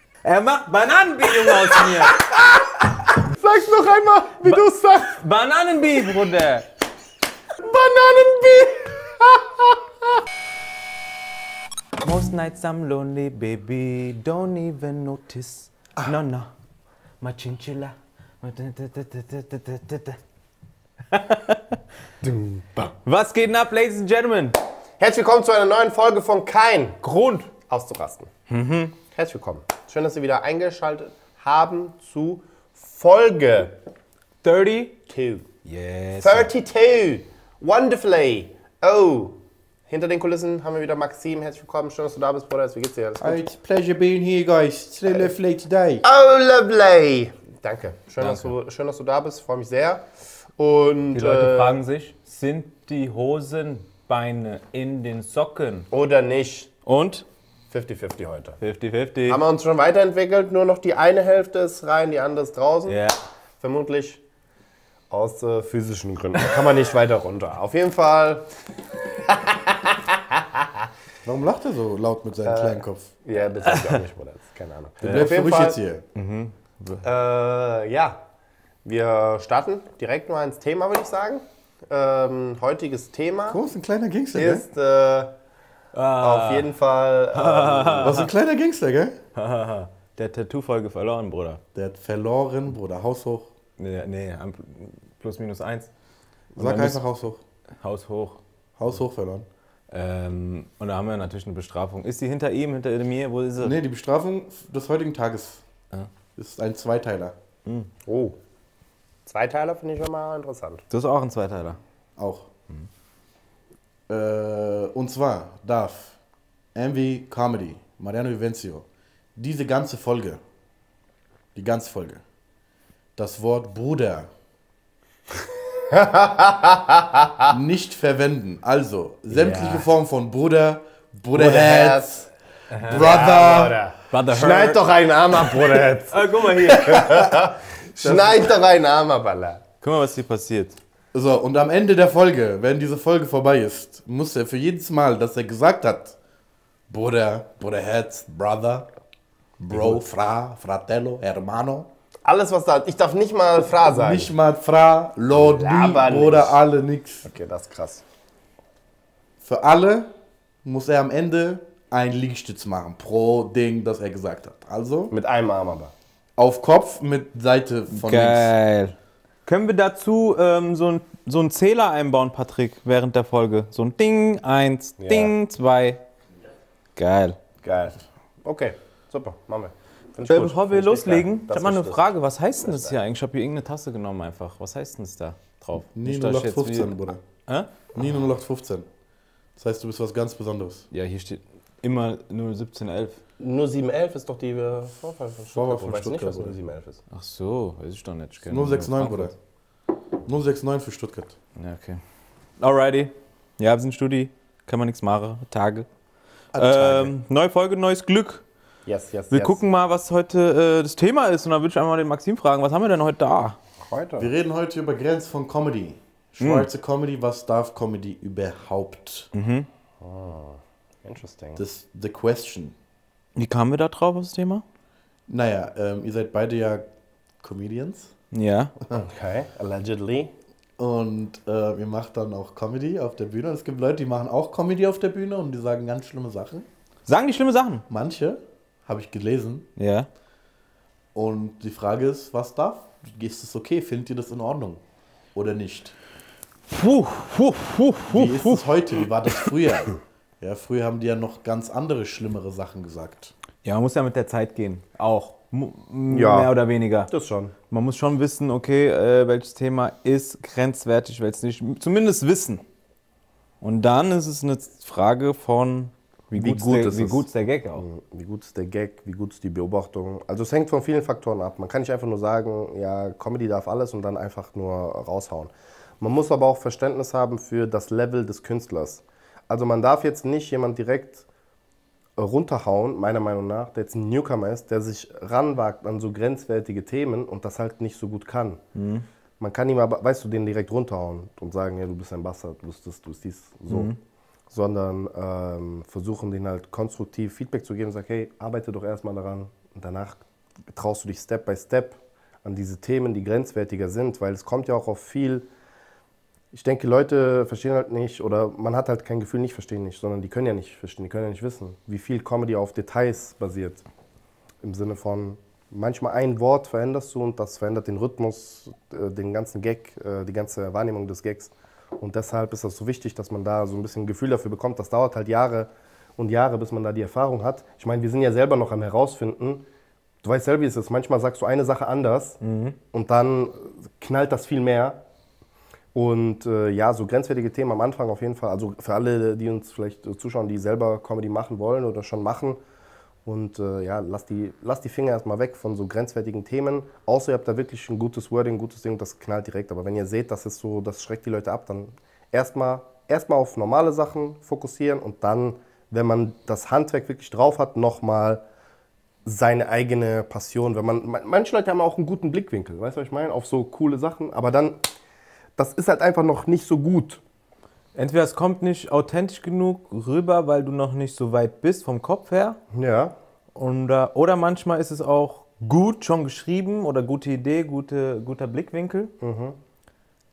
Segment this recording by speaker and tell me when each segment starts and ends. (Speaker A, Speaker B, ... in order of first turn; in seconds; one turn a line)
Speaker A: 0.2-2.2
Speaker B: 3.1-5.2
Speaker A: 4.4-6.7
Speaker B: 7.6-10.2
Speaker A: 12.0-16.5
Speaker A: 17.2-20.2
Speaker A: 21.1-21.8
Speaker B: 22.2-22.9
Speaker A: 23.1-24.6
Speaker B: 25.0-28.3
Speaker A: 27.0-27.5
Speaker A: 28.5-29.0
Speaker B: 29.1-33.8
Speaker A: 34.4-35.0
Speaker B: 35.1-35.5
Speaker A: 35.7-36.5
Speaker B: 36.2-43.4
Speaker C: 43.2-46.0
Speaker B: 46.0-50.0
Speaker A: 48.2-48.5
Speaker B: 50.6-51.8
Speaker A: 51.1-55.9
Speaker B: 55.9-56.7
Speaker A: 56.9-57.3
Speaker B: 57.7-58.6
Speaker A: 58.6-59.4
Speaker B: 59.3-63.0
Speaker A: 62.9-63.2
Speaker B: 63.6-64.2
Speaker B: 65.1-70.9
Speaker C: 71.2-73.1
Speaker B: 72.4-75.8
Speaker A: 73.6-74.0
Speaker C: 75.0-76.0
Speaker A: 76.2-77.0
Speaker B: 77.0-78.2
Speaker B: 78.8-83.6
Speaker C: 83.5-84.6
Speaker B: 84.3-85.4
Speaker A: 85.9-86.7
Speaker B: 86.2-88.2
Speaker A: 87.3-88.3
Speaker C: 88.0-89.2
Speaker A: 89.3-91.6
Speaker C: 91.8-93.5
Speaker A: 93.8-95.9
Speaker C: 96.5-97.4
Speaker A: 96.6-97.0
Speaker A: 97.8-98.4
Speaker C: 98.8-99.5
Speaker A: 99.9-103.8
Speaker C: 103.6-105.7
Speaker C: 106.4-107.3
Speaker B: 108.0-108.4
Speaker B: 109.3-110.8
Speaker A: 110.9-111.8
Speaker C: 112.2-112.5
Speaker C: 114.1-116.2
Speaker C: 116.8-120.4
Speaker C: 121.5-122.2
Speaker C: 123.2-124.3
Speaker B: 125.8-127.5
Speaker C: 127.5-132.3
Speaker B: 129.3-129.9
Speaker B: 131.3-132.2
Speaker A: 132.7-133.1
Speaker C: 132.8-133.8
Speaker B: 132.9-139.6
Speaker A: 134.1-134.8
Speaker A: 136.1-137.1
Speaker C: 136.6-138.5
Speaker A: 139.8-140.8
Speaker C: 141.1-146.2
Speaker C: 146.9-148.9
Speaker C: 149.6-151.9
Speaker B: 149.7-150.0
Speaker B: 152.2-154.3
Speaker C: 153.7-157.3
Speaker B: 155.3-156.6
Speaker B: 157.3-158.0
Speaker C: 159.4-160.1
Speaker C: 160.7-165.1
Speaker B: 165.1-165.9
Speaker C: 166.4-168.5
Speaker A: 167.9-168.9
Speaker A: 169.5-176.0
Speaker B: 175.0-175.3
Speaker A: 177.0-177.4
Speaker B: 177.6-183.0
Speaker A: 180.3-186.9
Speaker C: 185.9-187.2
Speaker C: 187.9-188.9
Speaker C: 189.6-190.9
Speaker A: 190.9-193.2
Speaker B: 193.4-197.0
Speaker C: 195.5-196.6
Speaker A: 197.1-199.3
Speaker C: 198.4-199.3
Speaker C: 200.2-201.4
Speaker A: 201.6-202.0
Speaker A: 202.6-205.9
Speaker C: 206.5-207.1
Speaker A: 206.6-208.4
Speaker B: 208.9-209.6
Speaker A: 209.3-213.6
Speaker B: 213.8-214.3
Speaker C: 214.2-219.3
Speaker A: 216.4-216.7
Speaker A: 219.3-219.7
Speaker B: 220.0-221.6
Speaker C: 221.6-222.8
Speaker A: 223.4-224.6
Speaker C: 225.3-226.9
Speaker C: 227.4-228.1
Speaker A: 228.3-228.7
Speaker B: 228.9-230.3
Speaker C: 230.8-236.7
Speaker A: 237.1-237.8
Speaker C: 237.9-239.7
Speaker A: 239.8-240.1
Speaker C: 241.2-244.8
Speaker C: 245.3-246.0
Speaker A: 246.7-248.7
Speaker C: 248.1-253.3
Speaker A: 253.6-257.1
Speaker B: 256.1-256.5
Speaker B: 257.1-257.5
Speaker A: 257.7-262.6
Speaker A: 263.6-267.9
Speaker B: 266.4-281.2
Speaker B: 282.2-288.6
Speaker A: 288.8-289.1
Speaker B: 289.4-293.9
Speaker A: 293.7-294.0
Speaker B: 294.5-305.5
Speaker B: 306.5-313.9
Speaker B: 314.6-329.6
Speaker B: 330.2-332.4
Speaker A: 332.4-332.8
Speaker B: 332.9-335.0
Speaker B: 335.9-342.6
Speaker B: 343.2-358.4
Speaker B: 359.2-364.8
Speaker B: 365.6-367.2
Speaker A: 367.9-372.6
Speaker B: 372.7-373.1
Speaker A: 373.6-379.1
Speaker B: 379.2-379.6